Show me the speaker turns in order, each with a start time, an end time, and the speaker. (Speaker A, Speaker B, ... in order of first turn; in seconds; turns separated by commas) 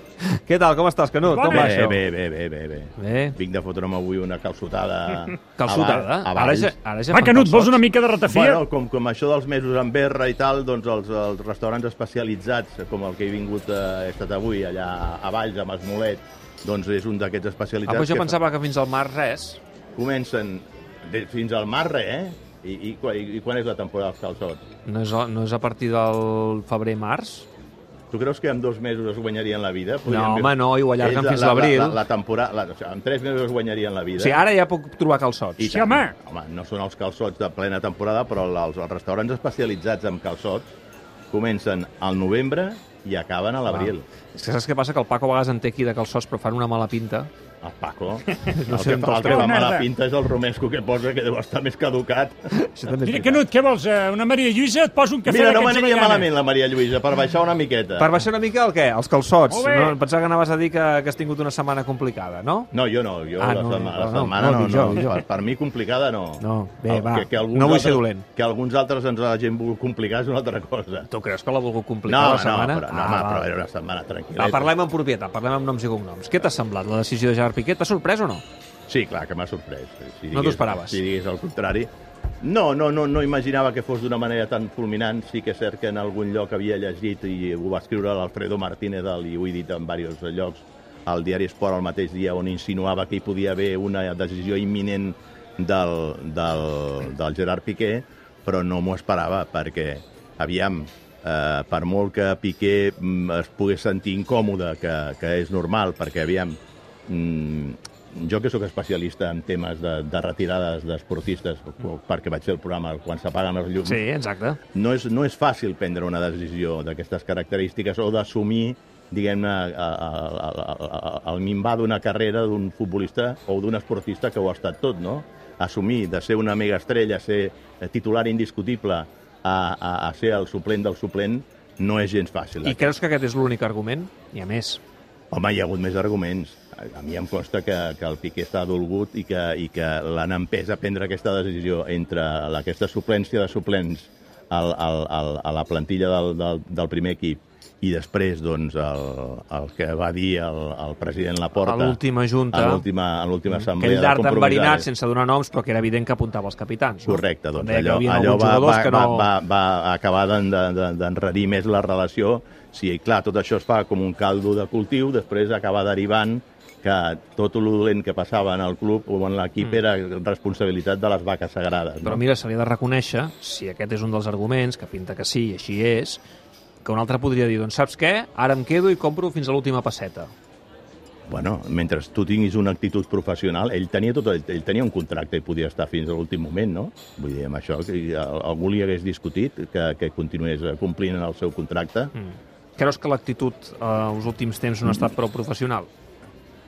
Speaker A: 0.2-2.0, Speaker B: 1.2-1.7, Speaker C: 1.5-6.7, Speaker A: 3.0-3.4, Speaker A: 5.5-7.8, Speaker B: 7.1-8.6, Speaker C: 8.2-18.4, Speaker A: 17.9-19.6, Speaker C: 19.9-24.6, Speaker A: 24.8-27.5, Speaker C: 28.1-34.4, Speaker A: 30.0-32.0, Speaker A: 34.2-35.9, Speaker C: 35.6-40.8, Speaker B: 35.7-36.1, Speaker C: 41.3-44.0, Speaker A: 43.7-47.3, Speaker C: 47.6-52.5, Speaker A: 48.5-49.6, Speaker B: 49.2-49.9, Speaker A: 52.5-53.4, Speaker B: 53.0-56.3, Speaker C: 55.2-58.1, Speaker A: 58.0-62.7, Speaker B: 59.5-60.0, Speaker C: 62.7-71.1, Speaker A: 63.4-65.2, Speaker A: 66.4-68.2, Speaker A: 71.1-73.5, Speaker C: 72.1-74.7, Speaker A: 74.4-78.4, Speaker C: 78.9-114.0, Speaker A: 80.3-81.0, Speaker A: 113.8-114.6, Speaker C: 114.7-132.9, Speaker A: 132.6-134.8, Speaker C: 135.3-152.0, Speaker A: 151.6-152.8, Speaker C: 152.5-154.9, Speaker A: 153.5-159.3, Speaker C: 157.1-172.2, Speaker A: 172.0-176.2, Speaker A: 176.8-180.3, Speaker C: 181.3-192.1, Speaker A: 192.1-195.9